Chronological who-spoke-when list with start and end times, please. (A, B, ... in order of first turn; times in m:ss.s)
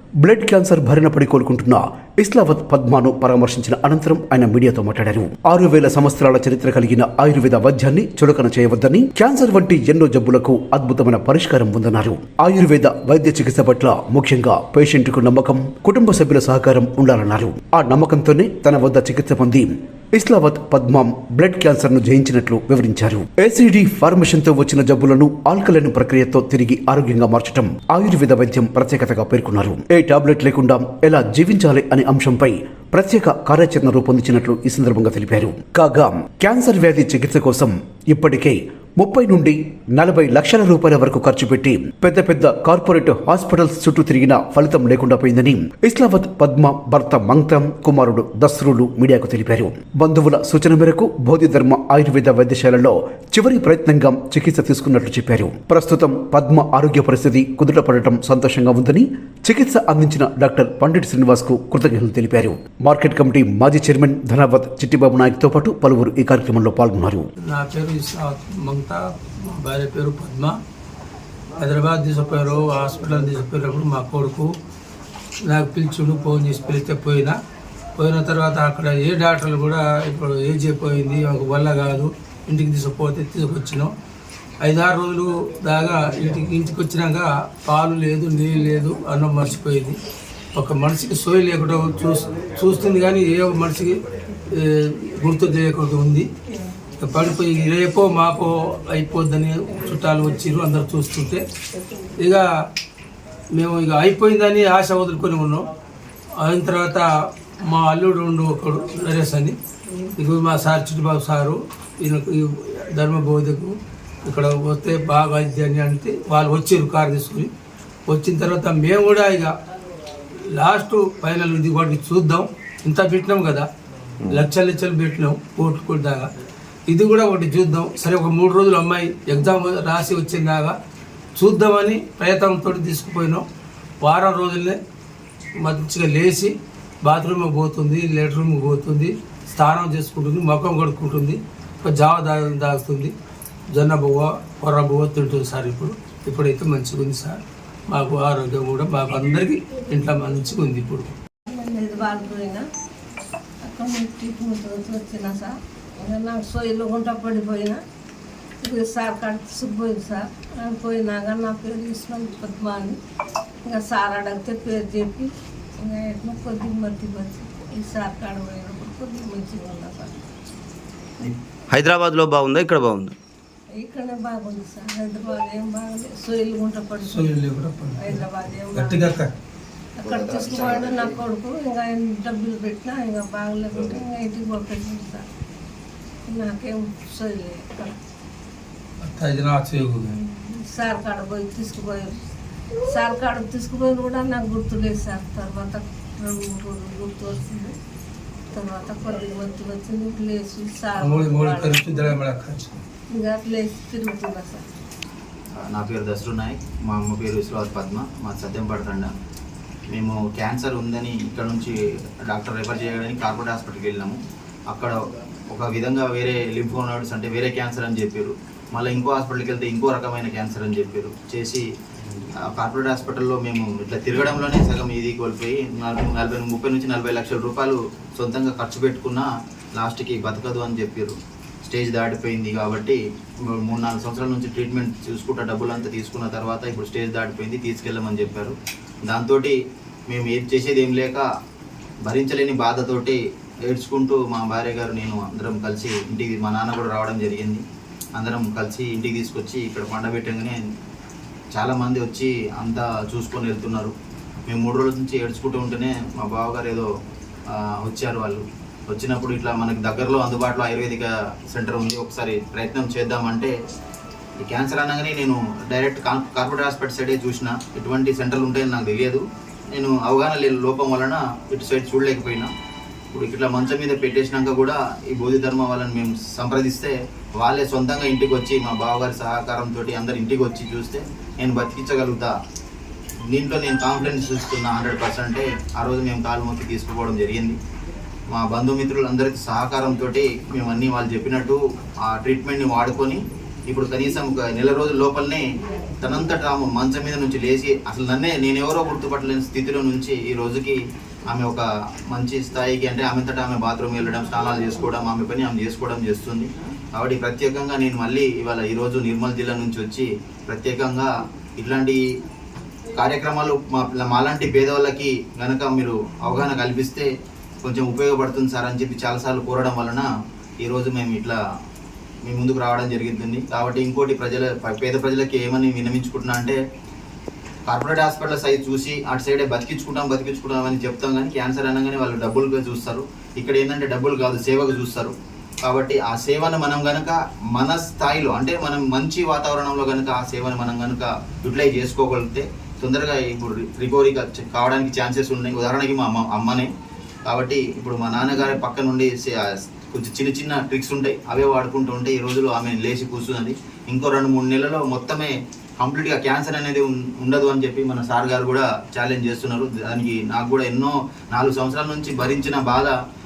0:00.2-1:07.2 A
1:07.5-1:10.6 B
1:11.6-1:14.5 B
1:15.5-1:17.4 B
1:18.0-1:23.9 B
1:24.6-1:30.0 B
1:30.5-1:36.3 B
1:37.0-1:41.4 B
1:42.2-1:42.4 B
1:43.5-1:45.6 B
1:46.4-1:47.1 B
1:47.7-1:49.6 B
1:50.2-1:57.5 B
1:58.1-1:59.5 B
2:00.6-2:03.7 B
2:04.3-2:06.3 B
2:06.9-2:10.7 B
2:11.4-2:13.4 B
2:14.0-2:14.8 B
2:15.6-2:23.1 B
2:23.7-2:31.1 B
2:31.5-2:32.6 C
2:33.6-2:37.8 C
2:38.6-2:43.0 C
2:43.6-2:50.2 C
2:51.8-2:53.1 D
2:53.7-2:57.4 C
2:57.0-2:59.3 B
2:58.0-2:59.2 C
3:00.0-3:05.2 C
3:00.3-3:01.1 D
3:06.3-3:08.0 C
3:09.0-3:10.1 B
3:10.1-3:12.1 C
3:12.9-3:17.7 C
3:18.5-3:22.2 C
3:21.0-3:22.8 B
3:23.1-3:24.6 C
3:25.6-3:29.1 E
3:29.9-3:31.7 E
3:32.3-3:34.2 E
3:34.7-3:35.0 E
3:35.5-3:41.6 E
3:42.2-3:59.6 E
4:00.1-4:01.2 E
4:02.0-4:07.6 E
4:08.1-4:10.6 E
4:11.5-4:13.9 E
4:14.5-4:16.9 E
4:17.5-4:23.5 E
4:24.4-4:29.2 E
4:29.7-4:32.5 E
4:33.1-4:42.3 E
4:43.3-4:47.6 E
4:48.3-4:55.4 E
4:56.0-5:00.8 E
5:01.3-5:12.0 E
5:13.0-5:17.1 E
5:17.6-5:20.1 E
5:20.6-5:21.4 E
5:22.2-5:26.6 E
5:27.6-5:46.7 E
5:47.3-5:49.4 E
5:49.9-6:02.9 E